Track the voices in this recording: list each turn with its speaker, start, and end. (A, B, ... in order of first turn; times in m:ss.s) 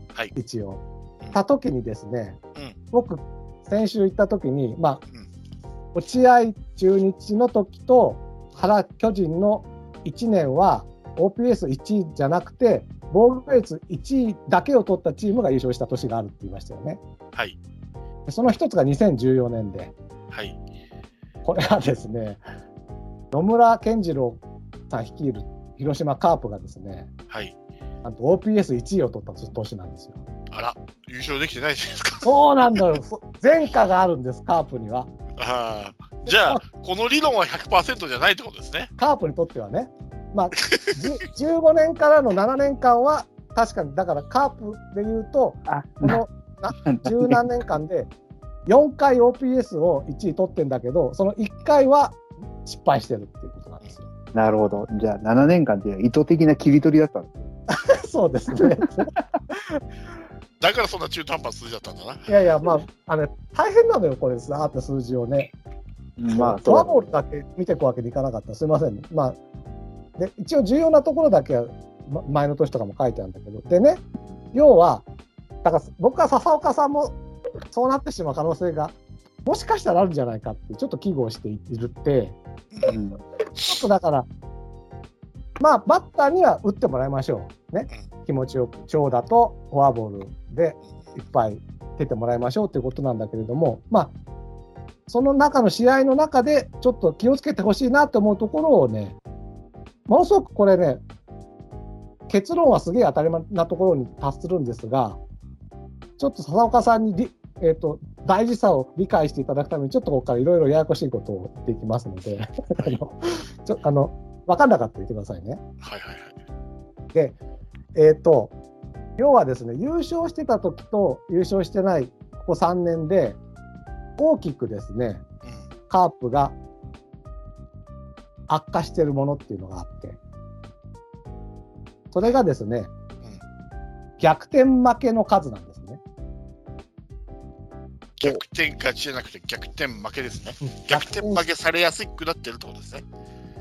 0:00.4-0:00.8 A
0:01.3-0:02.4 A
0:02.9-0:05.0 A
0:06.0-0:17.0 A
0:18.3-0:19.9 A
0:20.3-0:20.6 B
0:21.4-0:22.4 A
0:23.3-0:27.1 A
0:27.3-0:27.6 B
0:28.0-0:30.2 A
0:30.5-0:32.8 B
0:32.2-0:35.1 A
0:35.4-0:38.9 B
0:36.2-0:36.6 A
0:39.0-0:48.1 A
0:40.6-0:41.0 B
0:45.7-0:46.2 C
0:46.9-0:47.4 C
0:48.7-0:54.1 A
0:54.3-0:57.5 C
0:57.7-0:59.8 A
1:00.6-1:02.3 B
1:02.3-1:05.5 A
1:06.2-1:07.2 C
1:06.3-1:09.4 A
1:10.2-1:15.0 A
1:15.6-1:17.2 A
1:17.7-1:22.4 A
1:22.7-1:23.0 B
1:22.9-1:23.2 C
1:23.6-1:24.3 A
1:25.6-1:34.1 A
1:35.1-1:39.2 A
1:40.1-1:41.0 A
1:42.3-1:45.2 A
1:46.2-1:55.6 A
1:55.8-1:56.4 B
1:58.0-1:58.5 A
1:59.2-2:03.4 A
2:04.2-2:05.2 A
2:05.4-2:05.7 B
2:05.9-2:06.6 A
2:08.5-2:10.2 A
2:12.1-2:12.9 A
2:14.2-2:16.0 A
2:18.2-2:23.0 B
2:20.6-2:21.4 A